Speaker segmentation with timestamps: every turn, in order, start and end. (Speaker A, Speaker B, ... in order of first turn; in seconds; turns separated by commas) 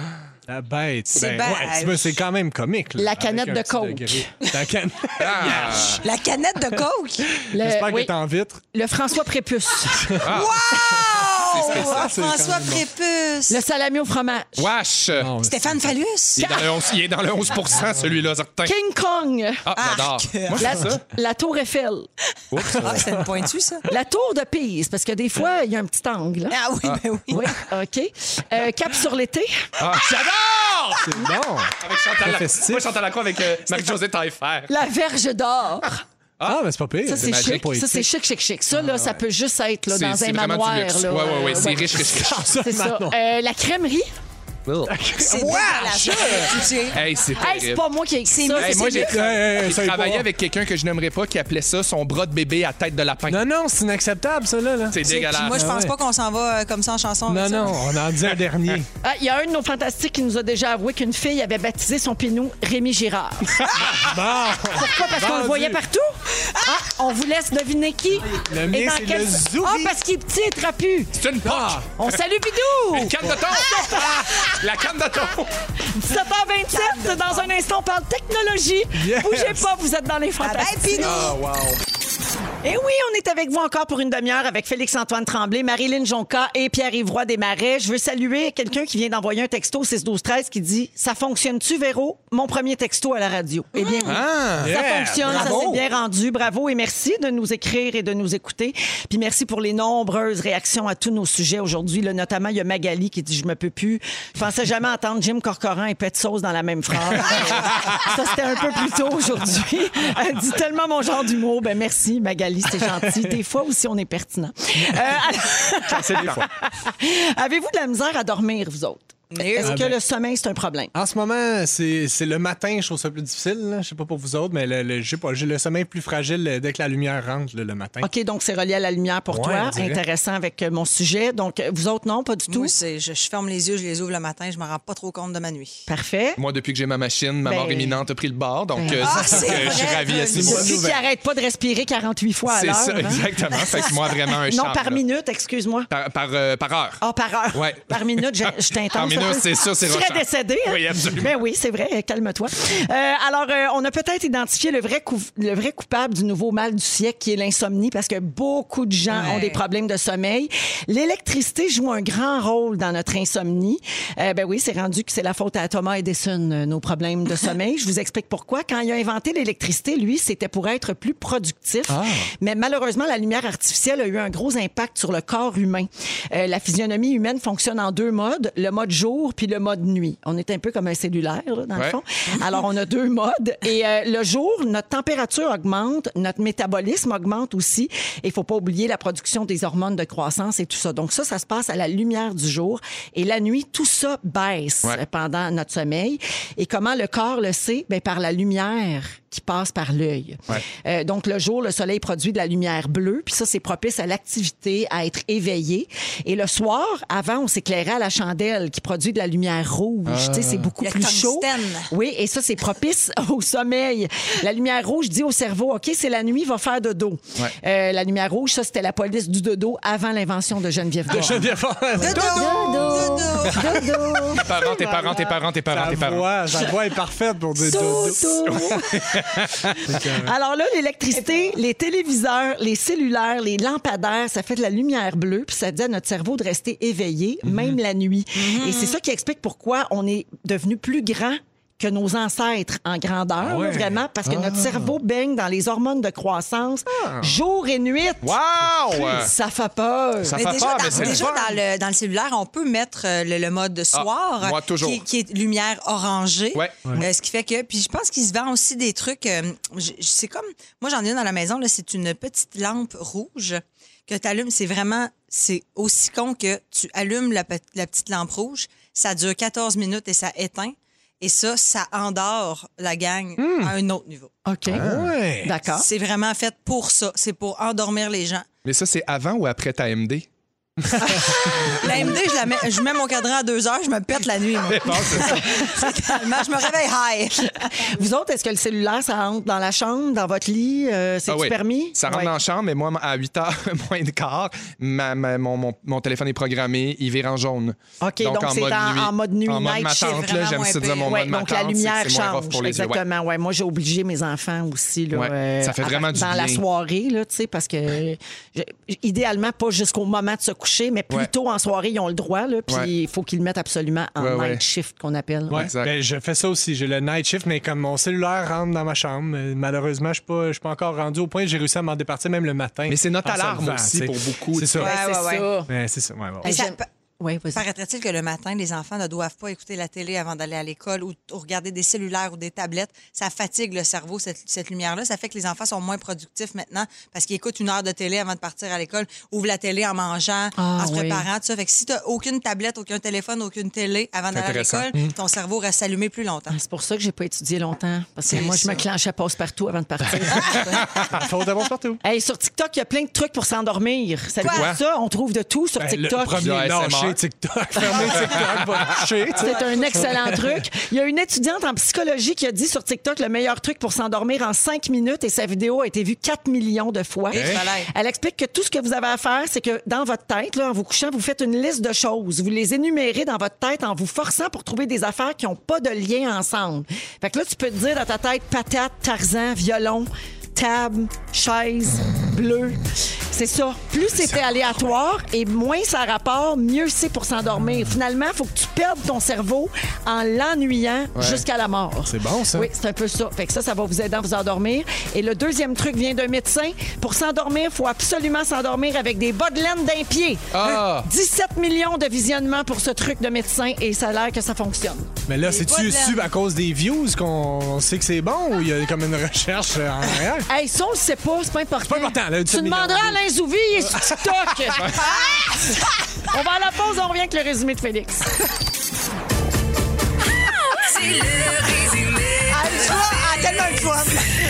Speaker A: 0.5-6.0, Speaker B: 1.1-2.2, Speaker C: 3.0-4.3, Speaker D: 5.2-6.0, Speaker B: 6.0-7.3, Speaker A: 6.8-8.6, Speaker C: 7.5-8.1, Speaker C: 8.7-10.3, Speaker A: 10.0-10.9, Speaker D: 10.2-10.8, Speaker B: 10.3-13.6, Speaker D: 11.4-12.2, Speaker A: 11.6-12.8, Speaker C: 13.5-14.7, Speaker D: 14.6-15.3, Speaker A: 15.2-15.8, Speaker B: 15.4-16.6, Speaker D: 16.4-18.8, Speaker C: 18.6-19.6, Speaker D: 19.7-21.0, Speaker B: 19.8-20.6, Speaker C: 20.6-22.1, Speaker D: 22.5-23.0, Speaker A: 22.6-23.3, Speaker B: 22.7-23.9, Speaker C: 23.9-26.6, Speaker B: 26.5-27.5, Speaker C: 27.3-29.7, Speaker D: 29.8-31.2, Speaker A: 31.0-32.9, Speaker D: 31.8-34.7, Speaker C: 34.7-36.0, Speaker D: 36.4-37.7, Speaker A: 36.4-38.1, Speaker C: 37.1-44.1, Speaker A: 38.7-39.2, Speaker D: 39.9-42.4, Speaker A: 42.0-43.2, Speaker D: 44.6-45.0, Speaker A: 44.9-46.6, Speaker B: 45.2-47.0, Speaker D: 46.9-47.8, Speaker C: 47.4-49.4, Speaker B: 48.3-49.2, Speaker D: 48.5-53.4, Speaker A: 49.0-50.2, Speaker A: 53.3-55.0, Speaker D: 54.9-55.7, Speaker B: 55.0-57.9, Speaker A: 55.5-56.0, Speaker A: 57.3-58.9, Speaker C: 59.0-63.7, Speaker D: 63.9-64.1, Speaker A: 63.9-65.8, Speaker C: 64.7-71.2, Speaker A: 68.5-69.9, Speaker D: 71.2-72.2, Speaker A: 71.4-71.9, Speaker C: 72.0-74.5, Speaker D: 72.9-75.6, Speaker B: 73.6-74.0, Speaker C: 75.9-81.3, Speaker B: 76.7-77.5, Speaker A: 79.0-79.7, Speaker B: 80.4-81.3, Speaker D: 81.0-81.8, Speaker C: 82.6-120.9, Speaker D: 94.0-95.7, Speaker A: 94.0-95.8, Speaker D: 115.9-116.5, Speaker B: 119.3-119.8, Speaker A: 119.6-120.0, Speaker A: 120.9-128.1, Speaker C: 128.0-132.7, Speaker A: 129.3-130.0, Speaker B: 132.5-135.8, Speaker C: 135.9-136.4, Speaker D: 136.4-140.7, Speaker C: 137.4-138.0, Speaker C: 138.8-139.3, Speaker B: 139.0-140.8, Speaker A: 139.1-141.1, Speaker C: 140.4-145.9, Speaker D: 142.5-145.0, Speaker D: 145.9-147.0, Speaker C: 147.0-224.5, Speaker D: 147.5-151.4, Speaker B: 159.1-159.6, Speaker D: 210.1-210.7, Speaker B: 210.8-211.9, Speaker A: 221.1-229.2, Speaker B: 222.0-223.8, Speaker D: 224.3-226.3, Speaker C: 227.6-229.2, Speaker D: 228.5-230.0, Speaker A: 229.8-230.3, Speaker C: 229.9-248.4, Speaker A: 237.5-237.8, Speaker B: 238.4-239.0, Speaker A: 243.4-244.6, Speaker D: 244.3-244.7, Speaker A: 246.9-247.4, Speaker D: 248.2-249.3, Speaker C: 248.9-250.5, Speaker D: 250.3-251.3, Speaker B: 250.3-274.3, Speaker A: 250.9-251.4, Speaker D: 253.9-255.0, Speaker A: 273.4-273.7, Speaker C: 274.5-275.9, Speaker A: 274.7-275.6, Speaker B: 275.7-278.5, Speaker D: 278.6-280.3, Speaker B: 281.0-288.0, Speaker C: 281.8-282.1, Speaker D: 284.7-285.4, Speaker C: 284.9-286.4, Speaker C: 287.7-292.3, Speaker D: 291.3-303.0, Speaker C: 298.0-300.2, Speaker B: 299.8-301.2, Speaker C: 301.0-315.7, Speaker D: 305.1-306.6, Speaker D: 314.2-314.6, Speaker A: 315.5-324.9, Speaker D: 315.5-315.9, Speaker D: 322.9-324.9, Speaker B: 324.8-325.5, Speaker C: 324.8-325.7, Speaker A: 325.7-326.6, Speaker B: 326.4-326.9, Speaker C: 326.4-327.6, Speaker B: 327.6-346.6, Speaker C: 340.6-341.3, Speaker D: 344.3-344.9, Speaker C: 346.5-350.9, Speaker B: 348.3-348.8, Speaker D: 350.2-351.2, Speaker A: 350.5-352.0, Speaker C: 352.0-356.5, Speaker B: 354.4-354.7, Speaker D: 354.5-354.8, Speaker A: 355.8-360.6, Speaker D: 356.4-357.2, Speaker C: 357.8-358.4, Speaker D: 358.2-359.0, Speaker C: 359.4-405.1, Speaker B: 359.4-360.2, Speaker B: 367.3-367.9, Speaker D: 367.3-367.6, Speaker D: 391.1-391.4, Speaker A: 392.1-392.7, Speaker D: 400.5-401.1, Speaker A: 405.3-410.5, Speaker B: 405.4-406.3, Speaker C: 410.5-418.3, Speaker A: 411.9-413.2, Speaker A: 413.9-414.9, Speaker D: 414.8-415.1, Speaker B: 421.0-423.9, Speaker C: 422.5-424.3